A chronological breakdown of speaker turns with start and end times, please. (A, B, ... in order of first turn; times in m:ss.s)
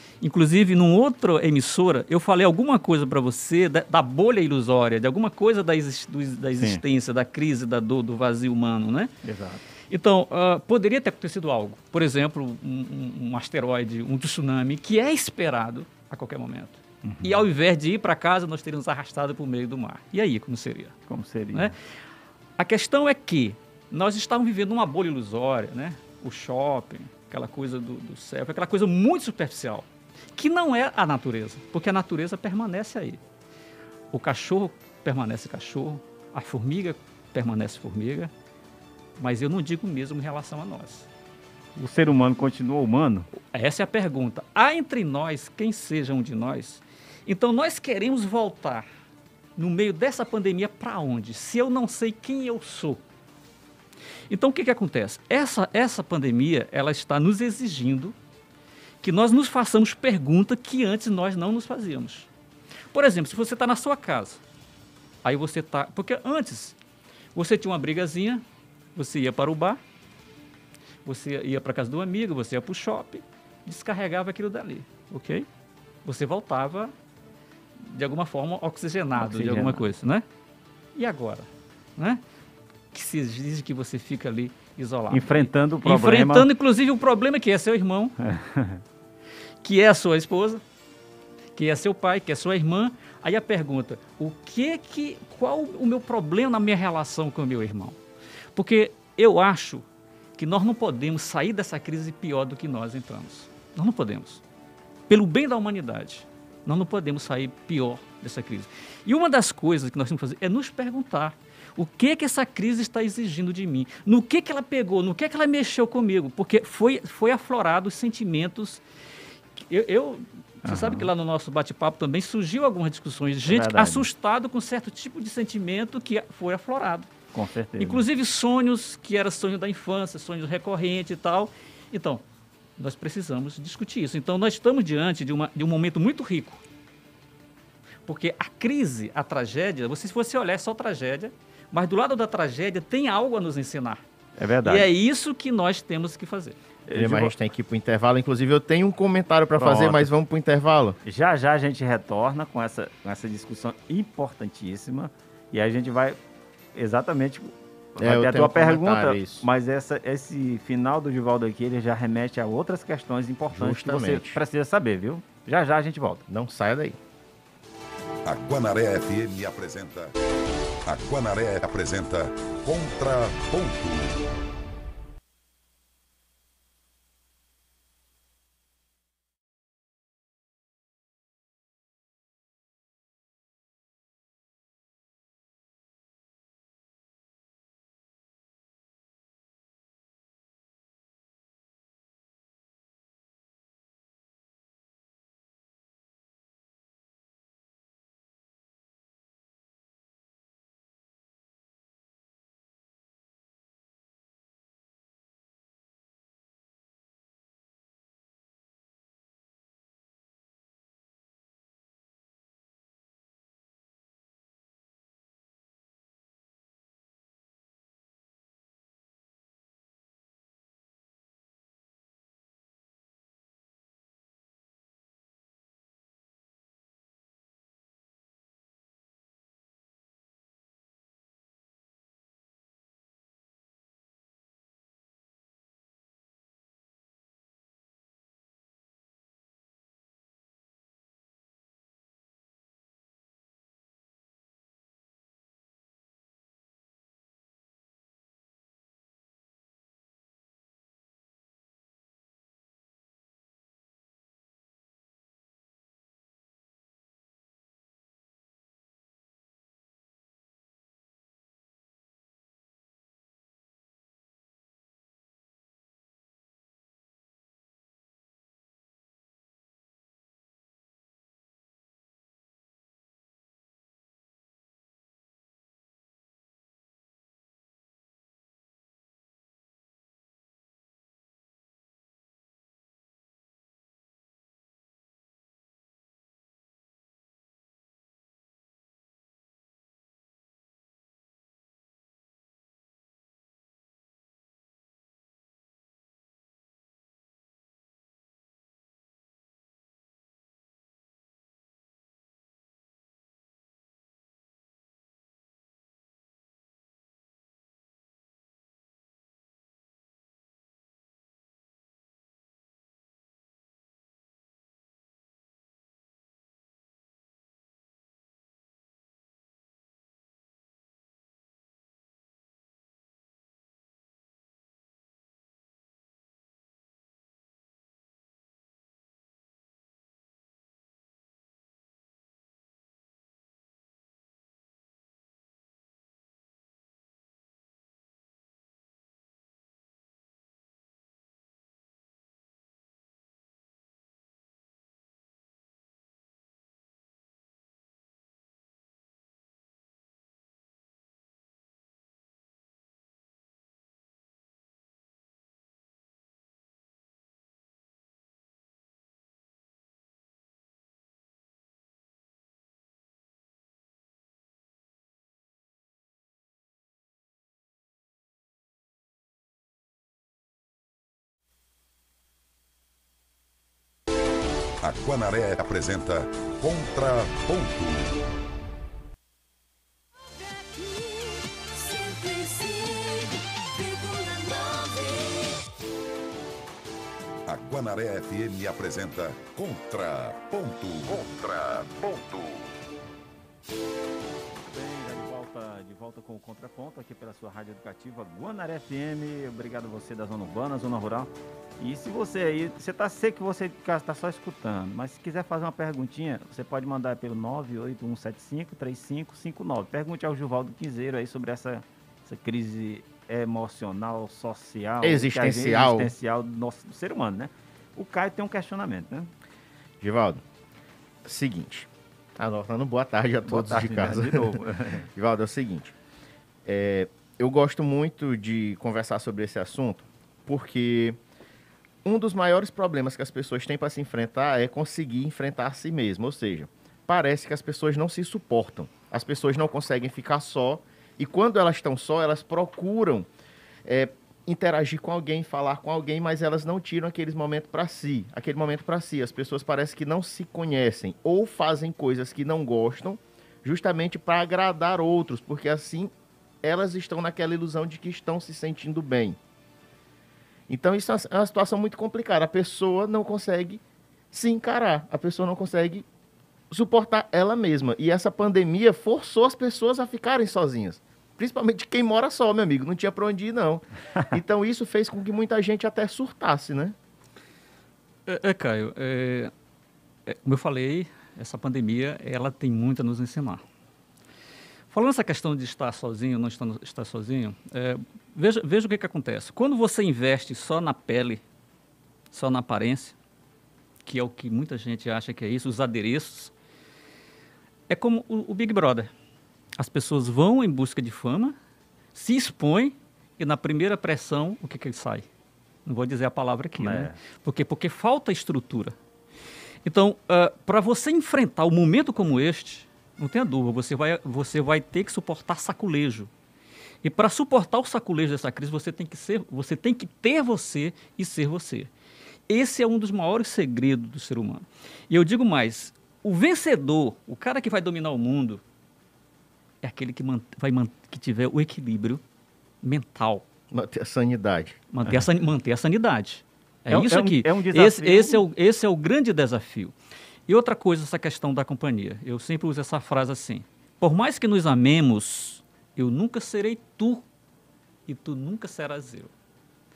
0:00.2-0:09.1 A
0:09.2-0:09.6 B
0:09.9-0:21.0 A
0:17.0-0:17.4 B
0:21.1-0:21.7 B
0:22.6-0:33.2 A
0:34.1-0:38.3 A
0:39.2-0:41.1 A
0:41.8-0:43.3 B
0:43.4-0:48.8 A
0:49.6-0:53.0 A
0:54.3-0:58.1 A
0:59.0-1:02.3 A
1:02.9-1:04.4 A
1:05.2-1:06.8 A
1:07.3-1:08.4 A
1:08.9-1:09.8 A
1:11.0-1:15.4 A
1:16.0-1:16.9 A
1:17.8-1:20.2 A
1:19.2-1:19.9 B
1:21.0-1:22.2 A
1:22.9-1:28.1 A
1:25.1-1:26.5 B
1:28.2-1:28.8 B
1:29.6-1:30.6 A
1:31.5-1:38.0 A
1:38.5-1:39.8 A
1:40.4-1:44.4 A
1:45.1-1:58.8 A
1:59.6-2:07.1 A
2:00.6-2:01.1 B
2:03.5-2:04.1 B
2:07.3-2:08.0 B
2:07.8-2:12.2 A
2:12.8-2:16.6 A
2:18.0-2:24.0 A
2:24.4-2:24.9 B
2:24.6-2:26.6 A
2:26.9-2:27.3 B
2:26.9-2:31.0 C
2:29.6-2:30.1 B
2:31.0-2:36.2 B
2:36.7-2:46.2 B
2:38.0-2:39.4 C
2:43.5-2:44.4 C
2:46.3-2:47.0 C
2:48.2-2:50.1 D
2:50.8-2:54.3 D
6:14.8-6:18.2 D
6:20.7-6:25.4 A
6:27.5-6:32.7 D
6:34.5-6:59.3 B
6:55.0-6:56.1 C
7:00.0-7:00.4 C
7:01.2-7:04.6 C
7:03.4-7:05.1 B
7:05.2-7:05.9 C
7:06.6-7:11.2 C
7:12.0-7:23.3 C
7:23.8-7:36.1 C
7:36.6-7:39.4 C
7:40.7-7:46.0 C
7:46.7-7:57.0 C
7:58.2-7:59.5 A
8:00.2-8:03.6 A
8:04.9-8:11.4 A
8:12.3-8:13.2 A
8:14.0-8:16.5 A
8:17.9-8:19.1 A
8:19.8-8:21.6 A
8:22.1-8:25.2 A
8:25.8-8:28.9 A
8:26.8-8:27.2 B
8:29.8-8:36.3 A
8:37.0-8:41.9 A
8:42.5-8:48.6 A
8:49.8-8:52.2 A
8:52.8-8:53.4 A
8:53.7-8:54.8 C
8:54.9-8:59.9 A
8:56.9-8:58.4 B
9:00.5-9:07.2 A
9:08.1-9:09.3 A